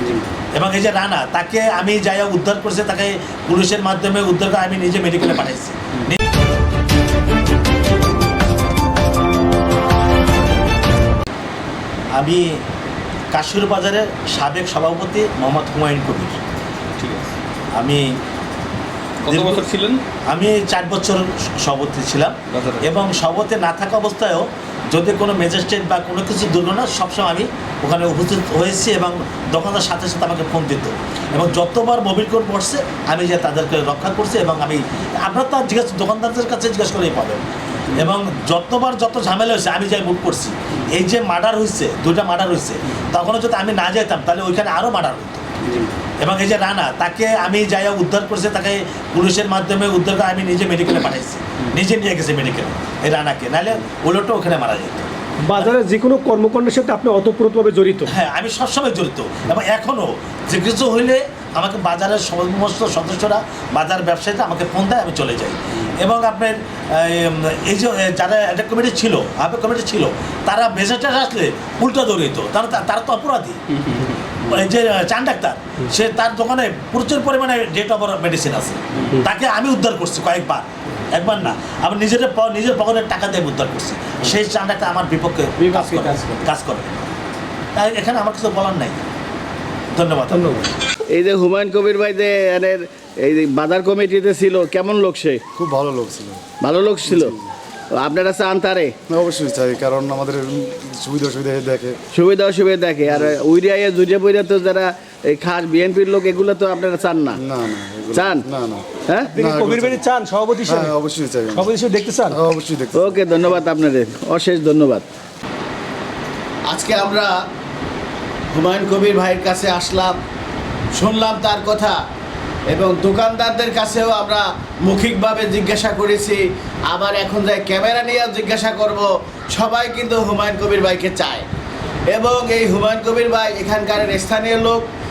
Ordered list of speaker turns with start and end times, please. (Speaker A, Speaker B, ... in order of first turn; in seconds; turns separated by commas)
Speaker A: 0.5-6.2, Speaker A: 12.1-12.6, Speaker A: 13.3-16.4, Speaker B: 17.0-17.3, Speaker A: 17.8-18.1, Speaker B: 19.2-20.0, Speaker A: 19.3-19.7, Speaker A: 20.3-45.4, Speaker B: 22.5-22.9, Speaker A: 46.2-55.8, Speaker C: 55.5-58.1, Speaker A: 58.1-73.6, Speaker B: 73.7-74.2, Speaker A: 74.4-87.0, Speaker B: 79.0-79.2, Speaker B: 85.6-86.4, Speaker A: 87.8-89.0, Speaker A: 89.9-90.7, Speaker D: 91.1-95.4, Speaker E: 95.5-96.4, Speaker D: 96.6-97.3, Speaker E: 97.1-97.4, Speaker D: 98.0-98.9, Speaker E: 99.1-102.0, Speaker D: 102.1-107.4, Speaker E: 107.4-110.0, Speaker D: 108.1-108.4, Speaker D: 109.0-109.3, Speaker C: 109.3-110.9, Speaker E: 110.6-111.7, Speaker C: 111.5-112.4, Speaker E: 112.3-113.2, Speaker D: 112.9-115.0, Speaker D: 116.7-117.3, Speaker D: 118.5-120.2, Speaker D: 121.0-122.0, Speaker D: 122.7-131.4, Speaker D: 132.1-134.8